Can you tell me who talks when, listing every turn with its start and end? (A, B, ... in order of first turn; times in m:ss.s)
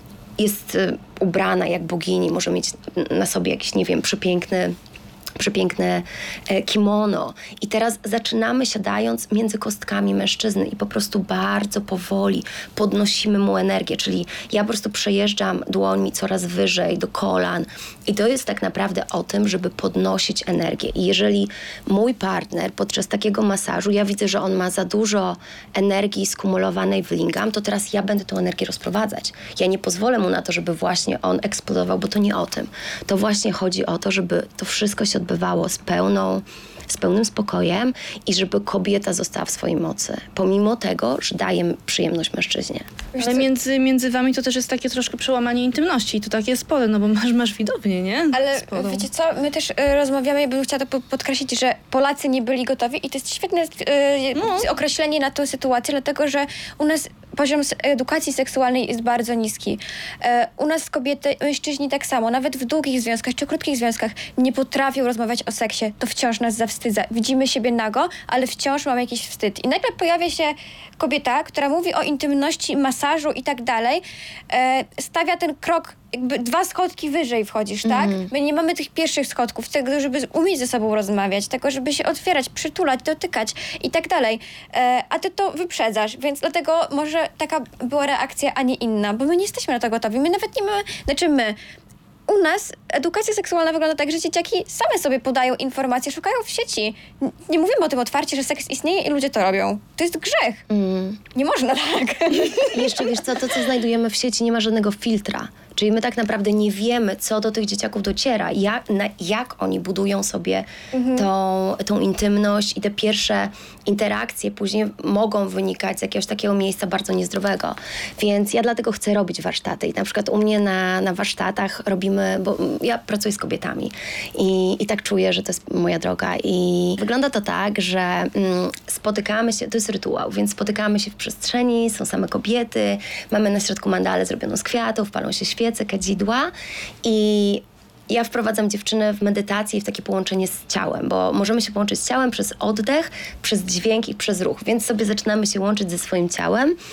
0:00.4-0:04.8 A
0:05.4-0:42.9 A
0:43.1-0:43.4 B
0:43.2-0:49.0 C
0:48.3-1:31.6 B
0:54.4-0:54.7 C
1:17.8-1:18.3 A
1:32.3-1:40.6 B
1:40.7-1:41.2 A
1:41.3-1:42.8 B
1:42.6-2:16.5 A
1:50.9-1:51.3 B
2:17.0-2:26.8 A